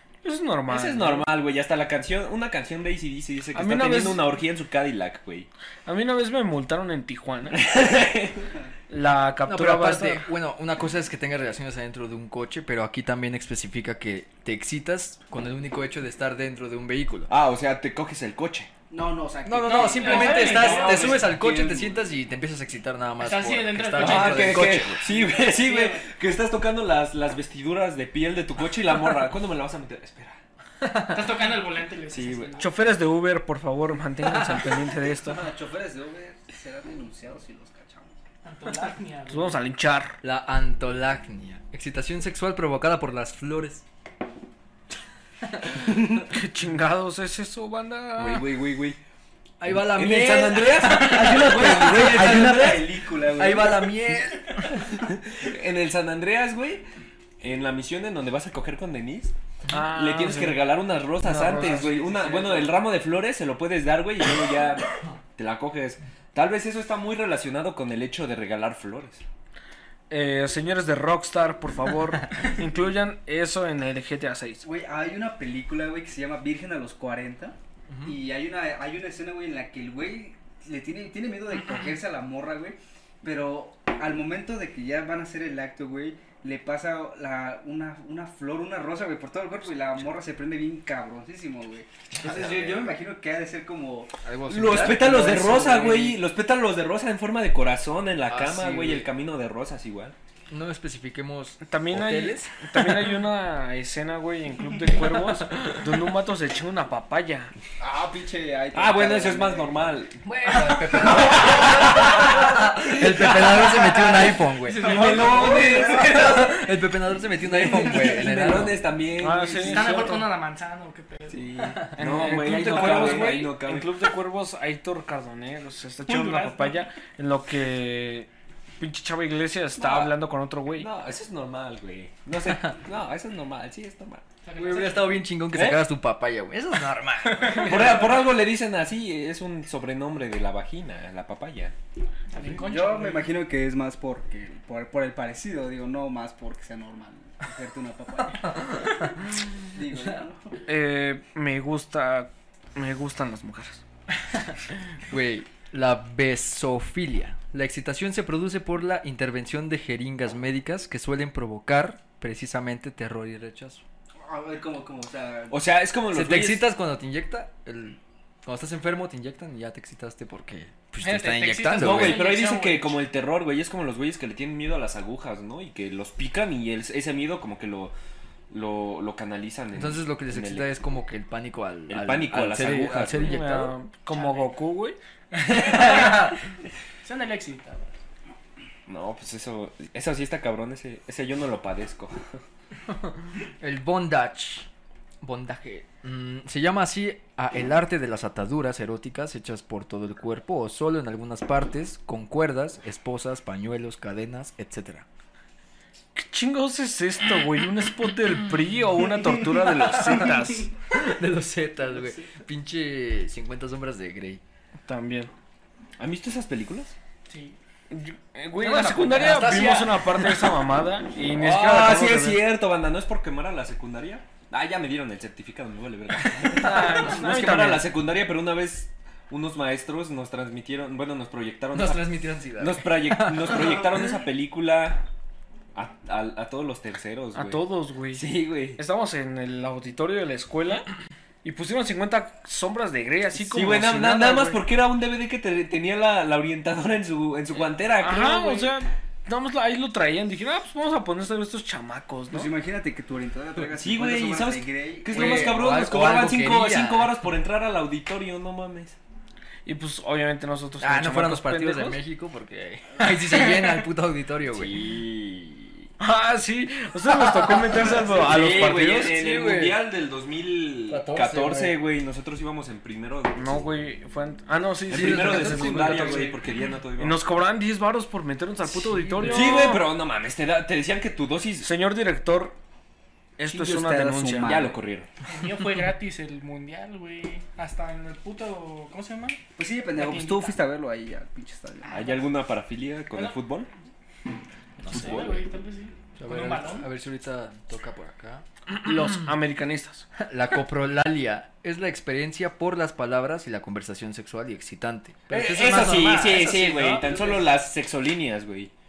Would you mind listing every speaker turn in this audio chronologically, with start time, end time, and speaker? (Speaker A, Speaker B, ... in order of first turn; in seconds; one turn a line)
Speaker A: 0.2-1.3
Speaker B: 0.7-5.5
Speaker A: 3.5-4.2
Speaker A: 5.9-7.6
Speaker B: 7.5-8.5
Speaker A: 8.9-10.3
Speaker C: 9.5-17.3
Speaker B: 17.3-18.7
Speaker D: 18.9-21.9
Speaker C: 19.5-25.0
Speaker E: 19.6-21.3
Speaker E: 23.2-26.1
Speaker B: 24.0-30.4
Speaker C: 30.8-31.2
Speaker E: 30.9-32.7
Speaker B: 32.1-32.6
Speaker A: 32.6-35.4
Speaker D: 35.2-38.1
Speaker E: 38.4-39.6
Speaker A: 39.3-40.2
Speaker C: 40.2-43.9
Speaker A: 46.2-48.5
Speaker B: 48.2-49.0
Speaker C: 49.6-54.8
Speaker B: 49.6-52.9
Speaker D: 52.0-54.2
Speaker B: 54.9-56.8
Speaker B: 57.4-69.2
Speaker A: 59.7-60.6
Speaker A: 61.2-61.9
Speaker D: 61.6-62.7
Speaker A: 70.1-74.6
Speaker D: 74.6-96.2
Speaker B: 92.2-92.8
Speaker C: 92.2-92.6
Speaker C: 94.2-95.7
Speaker B: 94.5-100.2
Speaker C: 98.3-99.1
Speaker C: 100.5-102.6
Speaker A: 101.6-107.5
Speaker D: 107.8-110.0
Speaker B: 108.7-116.6
Speaker C: 110.3-118.9
Speaker E: 114.7-115.7
Speaker D: 114.9-116.3
Speaker B: 117.5-120.3
Speaker A: 119.2-120.0
Speaker E: 119.6-122.0
Speaker B: 121.3-124.0
Speaker A: 122.0-130.9
Speaker E: 122.8-123.3
Speaker E: 126.1-126.8
Speaker B: 129.8-130.2
Speaker B: 130.7-134.2
Speaker E: 134.4-135.2
Speaker C: 134.6-138.1
Speaker B: 135.5-135.8
Speaker E: 137.4-137.9
Speaker B: 137.6-141.8
Speaker E: 142.3-143.3
Speaker D: 142.5-148.9
Speaker D: 149.6-150.6
Speaker A: 150.7-153.8
Speaker C: 155.1-163.8
Speaker D: 164.2-165.7
Speaker B: 165.5-166.7
Speaker C: 166.1-172.3
Speaker E: 171.0-173.0
Speaker B: 171.7-177.9
Speaker B: 178.5-180.7
Speaker C: 179.7-183.8
Speaker B: 181.9-183.4
Speaker A: 183.2-185.0
Speaker E: 184.1-184.5
Speaker E: 185.4-186.3
Speaker B: 185.6-186.2
Speaker E: 187.0-188.0
Speaker B: 188.9-192.4
Speaker C: 193.6-194.7
Speaker C: 195.2-205.1
Speaker A: 206.2-210.7
Speaker C: 210.9-214.4
Speaker A: 214.9-215.3
Speaker B: 216.0-216.9
Speaker E: 217.3-217.6
Speaker A: 217.9-222.4
Speaker C: 218.6-220.4
Speaker B: 221.3-235.1
Speaker A: 226.5-227.9
Speaker C: 231.7-233.9
Speaker B: 235.8-238.8
Speaker A: 237.3-240.9
Speaker A: 241.4-244.6
Speaker B: 243.4-248.8
Speaker A: 248.0-252.5
Speaker D: 252.3-255.7
Speaker B: 253.8-259.0
Speaker C: 255.1-257.2
Speaker A: 259.7-262.0
Speaker C: 260.8-264.9
Speaker B: 264.5-265.9
Speaker A: 266.0-269.1
Speaker C: 267.3-267.8
Speaker B: 268.1-273.7
Speaker C: 268.5-269.9
Speaker C: 270.9-271.8
Speaker A: 273.4-276.3
Speaker B: 274.9-277.2
Speaker C: 274.9-276.4
Speaker A: 277.0-279.8
Speaker C: 278.6-279.8
Speaker B: 279.2-281.7
Speaker A: 281.6-282.6
Speaker A: 283.4-284.6
Speaker B: 284.4-285.1
Speaker E: 285.2-289.4
Speaker D: 289.6-292.1
Speaker E: 289.9-290.6
Speaker B: 291.9-293.7
Speaker E: 293.1-293.4
Speaker C: 294.8-295.4
Speaker E: 294.9-296.9
Speaker B: 294.9-295.4
Speaker C: 296.2-298.4
Speaker A: 298.7-300.1
Speaker C: 300.2-307.4
Speaker B: 305.3-308.7